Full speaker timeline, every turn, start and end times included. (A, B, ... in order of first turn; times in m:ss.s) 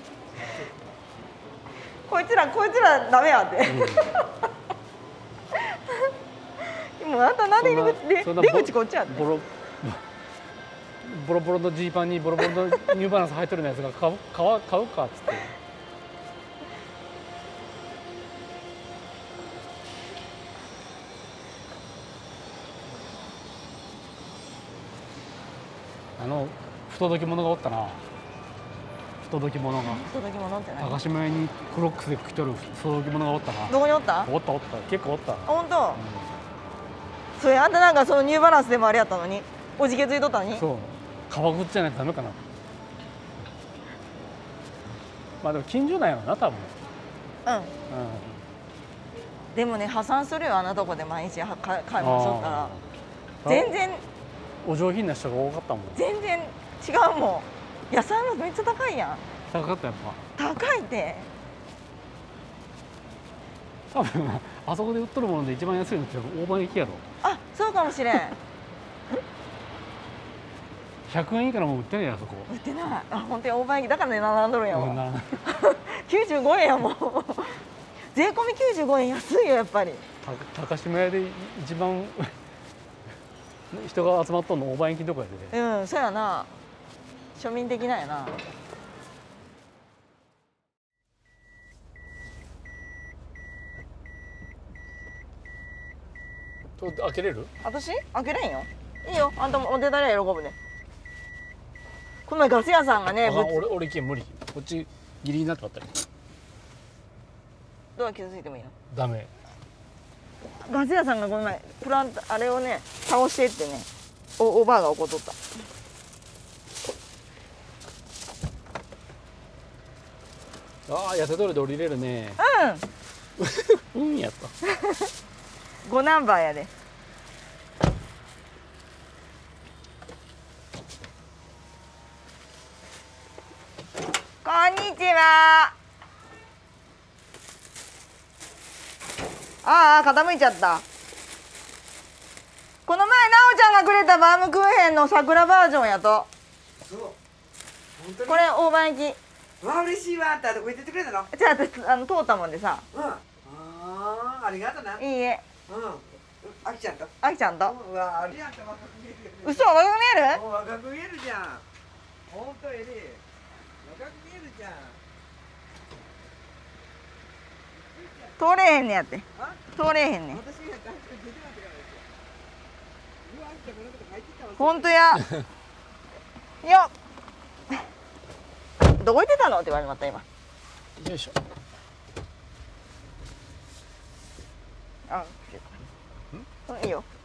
0:02.1-0:04.3 A
0:03.6-0:04.1 B
0:05.6-0:09.2 A
0:07.6-0:10.0 B
0:11.0-0:15.6 B
0:26.2-0:28.0 B
0:29.2-0:30.0 B
0:29.8-0:31.0 A
0:30.8-0:36.3 B
0:33.7-0:34.3 A
0:35.4-0:36.0 A
0:37.4-0:40.6 A
0:40.5-0:42.4 B
0:45.4-0:46.7 B
0:47.4-0:47.7 A
0:47.9-0:48.4 B
0:49.5-0:52.7 A
0:52.0-0:52.8 B
0:53.4-0:53.7 B
0:53.4-0:54.0 A
0:54.6-0:56.0 B
0:55.9-0:59.2 A
0:59.5-1:00.2 B
1:00.4-1:01.3 A
1:03.9-1:07.0 B
1:07.2-1:08.4 A
1:11.1-1:12.5 B
1:12.5-1:20.0 A
1:14.7-1:15.4 B
1:20.2-1:22.4 B
1:23.7-1:25.5 B
1:25.5-1:26.5 A
1:27.4-1:28.4 A
1:36.8-1:37.5 B
1:37.6-1:40.6 A
1:42.2-1:43.6 A
1:43.2-1:45.9 B
1:48.0-1:48.7 A
1:48.9-1:49.3 B
1:50.6-1:55.4 A
2:00.9-2:02.4 B
2:02.4-2:02.8 A
2:03.4-2:04.5 B
2:04.6-2:05.1 A
2:05.8-2:06.7 A
2:14.4-2:15.7 A
2:19.6-2:20.8 A
2:22.9-2:26.3 A
2:26.8-2:27.1 C
2:28.0-2:28.3 C
2:28.2-2:29.2 A
2:29.6-2:31.3 C
2:31.3-2:32.9 A
2:33.0-2:35.0 C
2:35.0-2:35.4 A
2:35.7-2:37.1 C
2:37.2-2:37.8 A
2:37.8-2:39.4 C
2:39.4-2:40.5 A
2:40.4-2:41.6 C
2:42.3-2:43.2 C
2:43.8-2:45.0 C
2:48.4-2:50.4 A
2:50.4-2:52.0 C
2:53.2-2:54.7 C
2:54.6-2:55.3 A
2:56.6-2:56.9 A
2:58.8-3:00.2 A
3:01.0-3:01.4 B
3:05.1-3:05.8 A
3:06.6-3:07.1 A